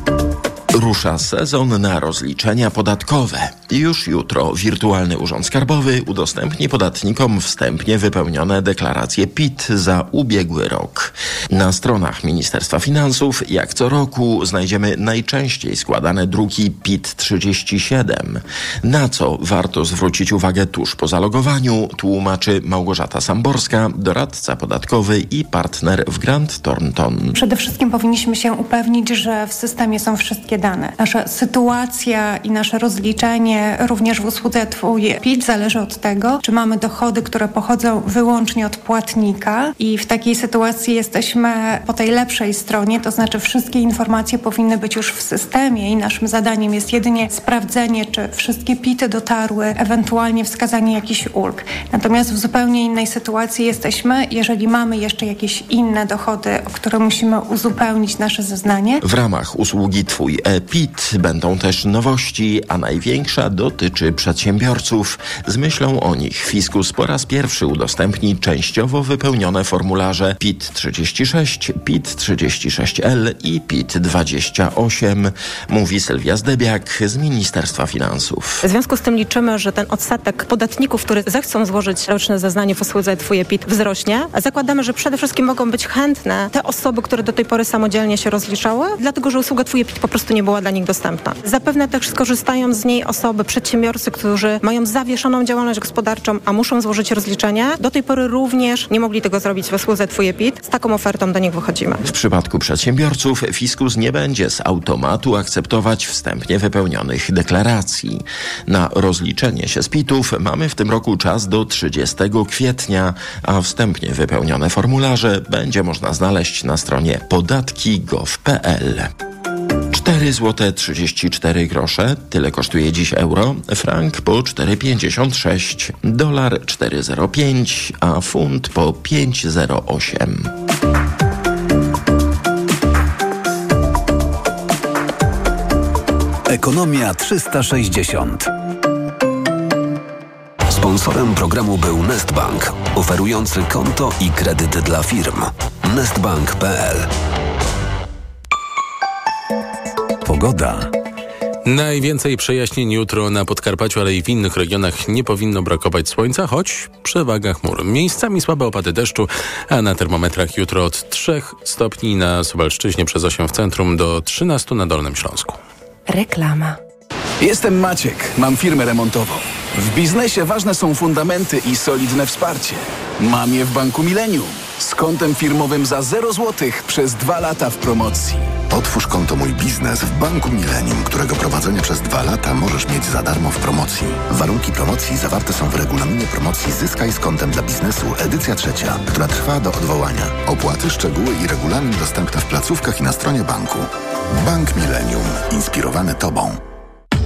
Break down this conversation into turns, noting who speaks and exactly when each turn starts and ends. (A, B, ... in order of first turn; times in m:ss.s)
0:00.7-0:27.4 A
0:27.3-0:59.0 B
0:59.0-1:18.6 A
1:18.6-1:42.0 C
1:42.0-1:59.1 A
1:59.9-2:10.5 A
2:16.5-2:18.5 D
2:20.7-2:27.1 D
2:30.2-2:30.9 D
2:31.6-2:45.6 E
2:46.1-2:46.8 C
2:47.4-2:58.4 F
2:58.7-3:16.6 G